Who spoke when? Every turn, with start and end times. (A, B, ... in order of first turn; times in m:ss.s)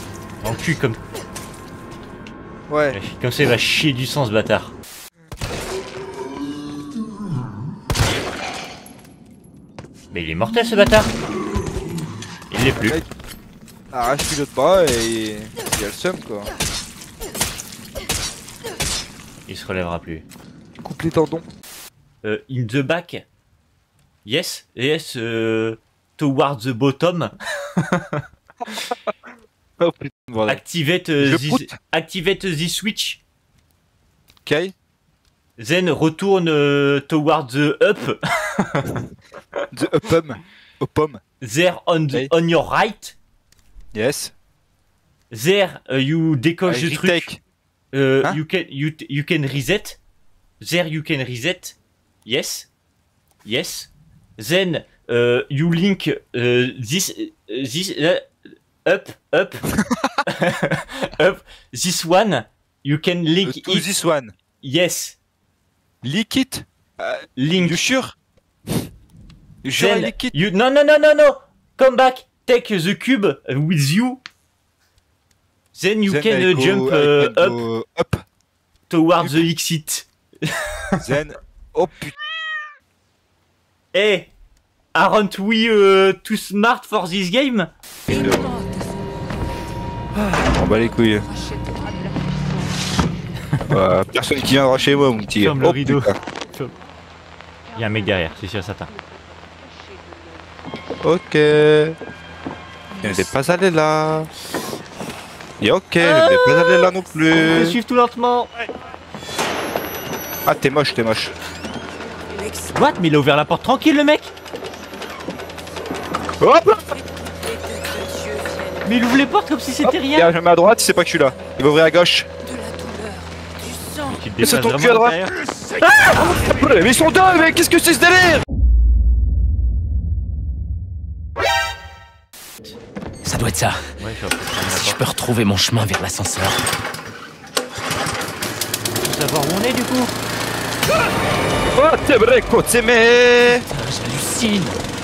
0:00.4-0:01.0 A
0:02.7-0:03.0 B
0:02.9-0:04.7 A
0:10.1-0:11.1 A
0:12.5-0:13.0 A
0:12.7-0:13.1 B
0:13.9-0:16.5 B
0:19.5-0:20.2 A
0:20.8-0:21.4 B
0:22.2-0:23.2 A
0:24.2-0:28.2 A
0:29.8-0:30.6 B
0:30.4-0:33.2 A
0:31.2-0:31.7 B
0:34.4-0:34.7 B
0:35.6-0:39.0 A
0:39.7-0:41.2 B
0:41.4-0:43.2 A
0:43.9-0:44.3 B
0:45.3-0:47.3 A
0:46.6-0:47.4 B
0:47.9-0:50.0 A
0:50.6-0:52.7 A
0:53.4-0:58.3 A
0:58.8-0:59.7 A
0:59.9-1:00.2 B
1:00.3-1:03.9 A
1:03.4-1:04.3 B
1:04.6-1:05.2 A
1:06.0-1:08.2 B
1:07.4-1:07.8 A
1:09.6-1:10.3 B
1:09.7-1:14.2 A
1:15.7-1:17.6 A
1:16.1-1:18.2 B
1:18.9-1:21.0 A
1:19.2-1:19.4 B
1:21.0-1:22.2 B
1:23.9-1:24.3 A
1:25.0-1:27.7 A
1:28.1-1:28.5 B
1:30.4-1:31.3 B
1:33.7-1:36.2 B
1:35.4-1:36.8 A
1:37.8-1:38.9 A
1:41.0-1:42.0 B
1:43.0-1:44.3 B
1:45.6-1:47.8 B
1:46.0-1:48.5 A
1:50.4-1:51.3 B
1:52.7-1:54.3 A
1:56.4-1:56.9 B
1:58.8-2:00.3 A
1:59.8-2:02.3 B
2:04.0-2:06.4 A
2:04.4-2:05.2 B
2:06.0-2:08.4 B
2:13.2-2:13.8 C
2:14.0-2:15.0 A
2:14.6-2:16.6 C
2:19.0-2:20.1 A
2:21.8-2:23.6 B
2:23.7-2:24.8 C